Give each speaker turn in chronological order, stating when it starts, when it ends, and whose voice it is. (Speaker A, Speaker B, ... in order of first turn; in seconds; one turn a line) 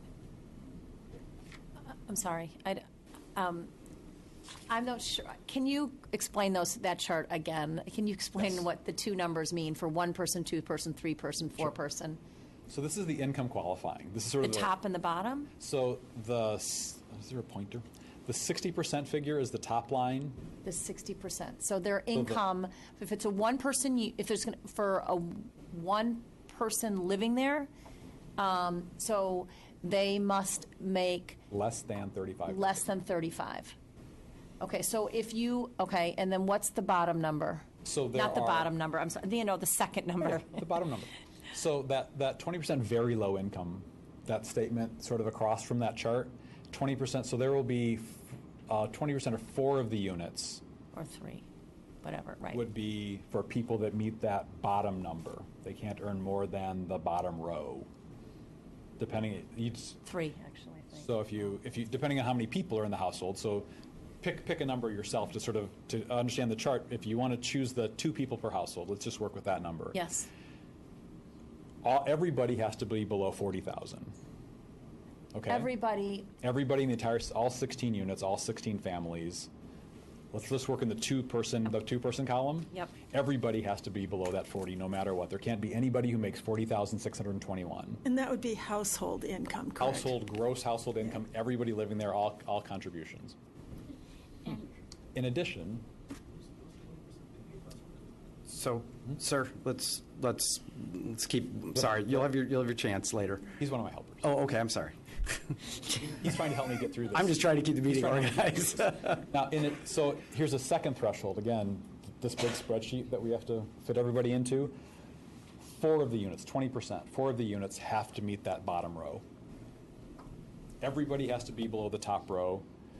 Speaker A: 2.1-2.8
Speaker A: 3.3-3.7
Speaker A: 4.7-12.2
Speaker B: 12.7-14.7
Speaker A: 14.4-15.5
Speaker B: 15.6-20.4
Speaker A: 20.6-27.7
Speaker B: 22.1-22.4
Speaker A: 28.4-31.4
Speaker B: 31.5-32.9
Speaker A: 32.5-33.7
Speaker A: 34.6-40.6
Speaker B: 37.8-38.7
Speaker B: 40.2-50.6
Speaker A: 50.9-51.4
Speaker A: 52.0-52.6
Speaker B: 52.5-57.9
Speaker B: 59.0-60.0
Speaker A: 60.0-61.3
Speaker B: 60.9-63.7
Speaker B: 64.2-70.0
Speaker A: 69.9-70.3
Speaker B: 71.8-74.1
Speaker B: 75.3-75.7
Speaker A: 75.5-76.3
Speaker B: 76.4-79.5
Speaker B: 80.3-88.0
Speaker C: 88.0-90.1
Speaker B: 89.8-93.3
Speaker B: 95.1-95.8
Speaker D: 98.5-103.6
Speaker B: 103.6-104.3
Speaker D: 104.2-105.6
Speaker B: 106.0-114.8
Speaker D: 107.1-109.2
Speaker B: 115.6-119.2
Speaker B: 120.8-122.7